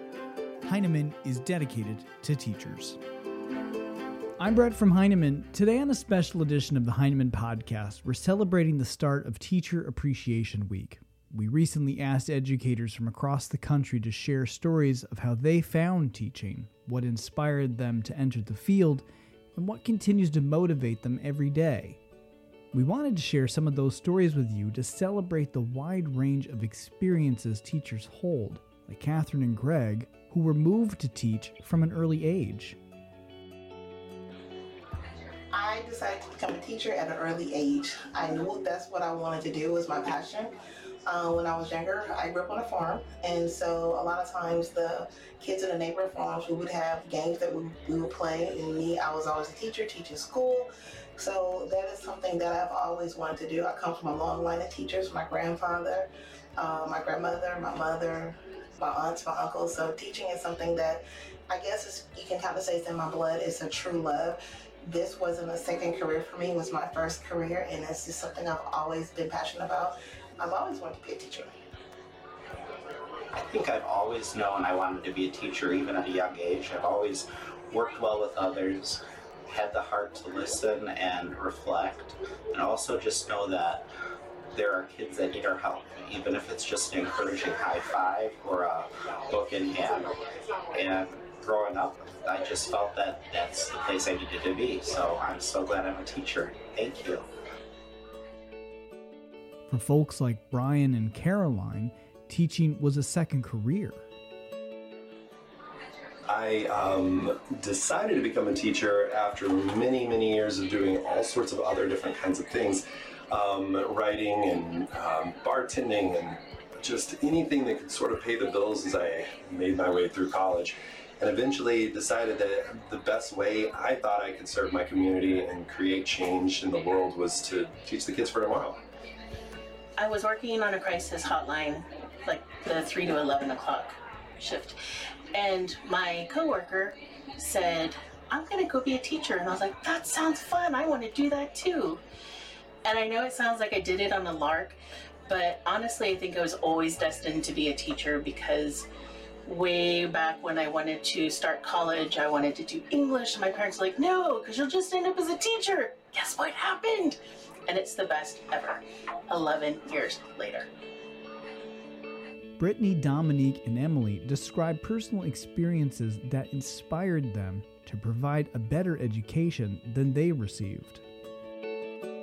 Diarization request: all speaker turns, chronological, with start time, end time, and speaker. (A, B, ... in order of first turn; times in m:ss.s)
0:00.6-0:03.0 A
0:04.4-0:19.0 A
0:19.6-0:22.0 A
0:22.7-0:32.8 A
0:35.5-0:40.5 B
0:41.1-1:11.5 B
1:13.3-1:23.9 C
1:24.5-1:37.3 C
1:39.7-1:44.1 A
1:46.3-2:08.8 D
2:10.0-2:14.8 E
2:15.3-2:22.0 E
2:22.8-2:24.8 E
2:25.3-2:28.9 E
2:29.4-2:40.7 E
2:42.6-2:51.0 A